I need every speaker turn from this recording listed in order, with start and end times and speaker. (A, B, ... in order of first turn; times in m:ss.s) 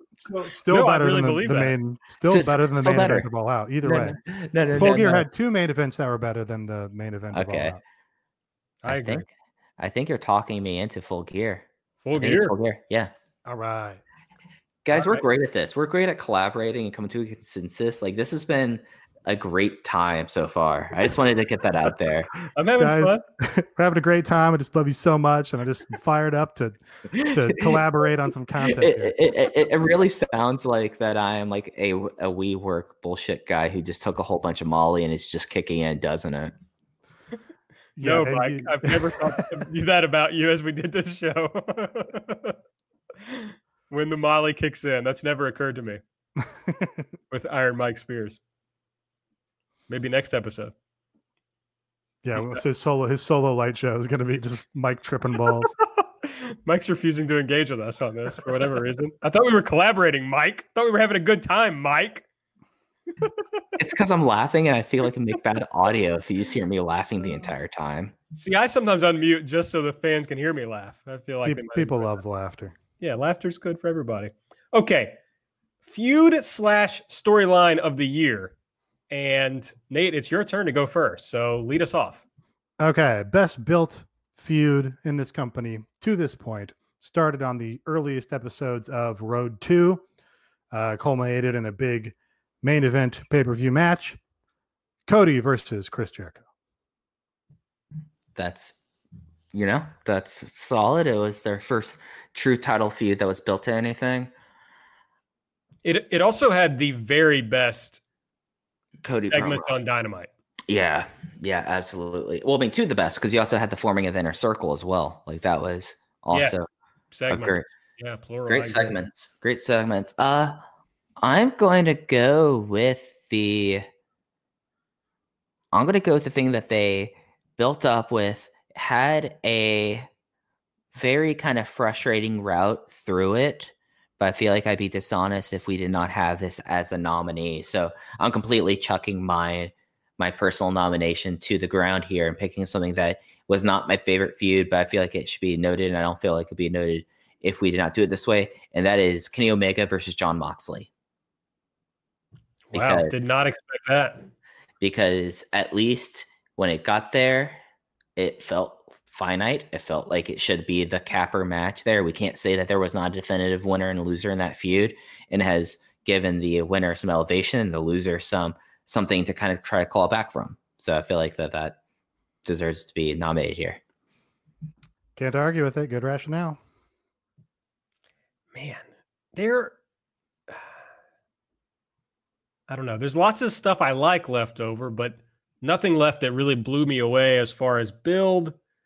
0:00.2-0:04.2 A
0:00.7-0:01.7 B
0:02.2-0:03.2 C
0:03.8-0:05.2 C
0:04.7-0:07.8 A
0:07.3-0:07.8 C
0:08.8-0:09.2 B
0:08.9-0:09.2 C
0:09.8-0:13.1 C
0:12.0-0:12.5 B
0:13.4-0:14.0 A
0:14.8-0:22.3 C
0:14.9-0:15.2 B
0:22.6-0:23.2 B
0:22.8-0:26.8 A
0:27.1-0:27.8 C
0:27.3-0:29.2 A
0:28.7-0:36.5 C
0:38.0-0:39.2 A
0:38.0-0:42.6 B
0:43.2-0:46.0 B
0:46.4-0:47.1 A
0:47.3-0:48.4 B
0:49.9-0:50.7 B
0:52.2-0:55.7 A
0:56.2-1:02.2 B
1:03.8-1:08.1 C
1:08.3-1:12.2 B
1:11.4-1:12.7 A
1:13.0-1:15.2 B
1:15.8-1:18.5 B
1:19.1-1:22.2 B
1:22.8-1:30.0 A
1:30.7-1:34.2 A
1:35.0-1:36.4 A
1:38.4-1:38.7 C
1:39.5-1:44.3 C
1:45.8-1:48.0 B
1:49.0-1:49.7 C
1:49.3-1:50.3 B
1:50.7-1:56.6 C
1:56.3-1:56.6 B
1:57.1-1:59.0 B
1:57.3-1:57.6 C
1:58.5-2:00.6 C
2:01.2-2:03.8 C
2:05.7-2:10.1 C
2:10.9-2:30.9 C
2:32.7-2:34.3 B
2:32.7-2:33.1 C
2:34.8-2:37.6 C
2:38.2-2:51.8 C
2:52.4-2:53.8 C
2:55.2-2:56.6 A
2:58.5-2:59.7 B
3:02.7-3:08.6 B